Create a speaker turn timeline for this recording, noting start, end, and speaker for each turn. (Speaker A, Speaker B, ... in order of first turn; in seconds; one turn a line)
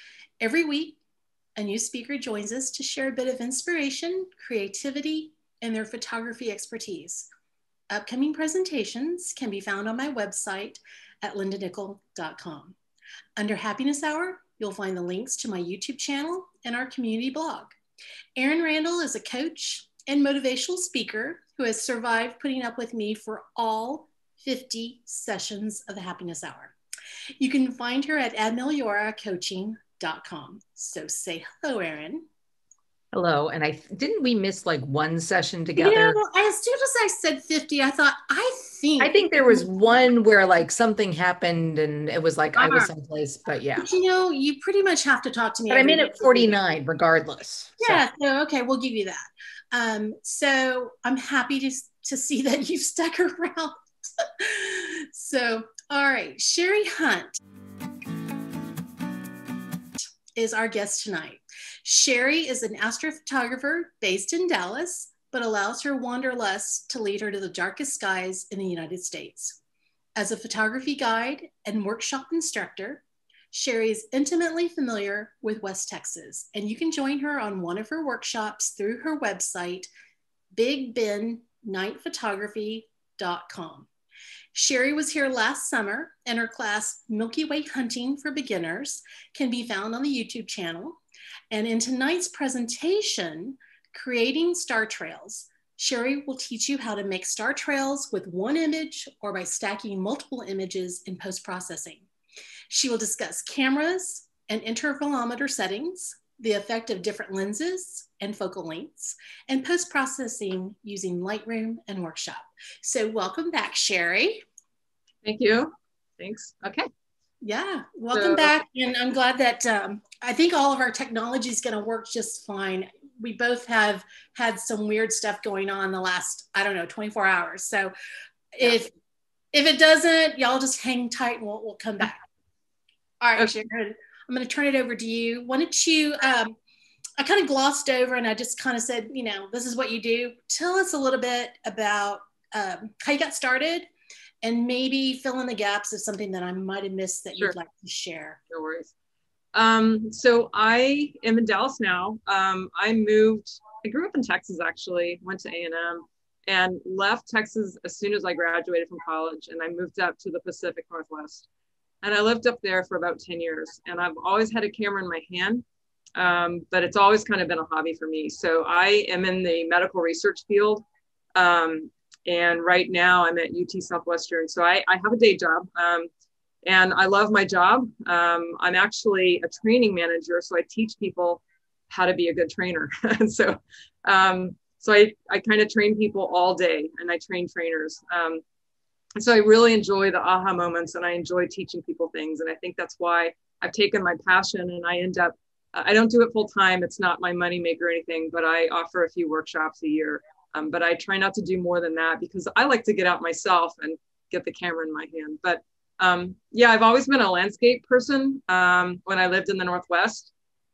Speaker A: 0.4-1.0
Speaker A: 1.6-7.3
Speaker A: 7.9-12.8
Speaker A: 13.4-17.8
Speaker A: 18.4-26.7
Speaker A: 27.4-32.2
Speaker B: 33.1-36.2
Speaker A: 35.8-39.6
Speaker B: 39.0-43.9
Speaker A: 42.6-42.9
Speaker A: 43.8-46.7
Speaker B: 45.7-48.0
Speaker A: 47.8-57.4
Speaker A: 60.4-69.6
Speaker A: 70.2-79.9
Speaker A: 80.5-83.9
Speaker A: 84.5-91.0
Speaker A: 91.5-102.1
Speaker A: 102.7-114.5
Speaker C: 115.2-116.9
Speaker A: 117.4-127.9
Speaker C: 118.1-118.5
Speaker A: 128.6-128.9
Speaker A: 129.5-132.2
Speaker A: 133.2-136.6
Speaker A: 137.2-143.9
Speaker A: 144.4-148.4
Speaker C: 148.5-148.9
Speaker C: 149.5-161.5
Speaker C: 162.0-165.7
Speaker C: 166.2-176.1
Speaker C: 176.7-188.4
Speaker C: 189.2-210.3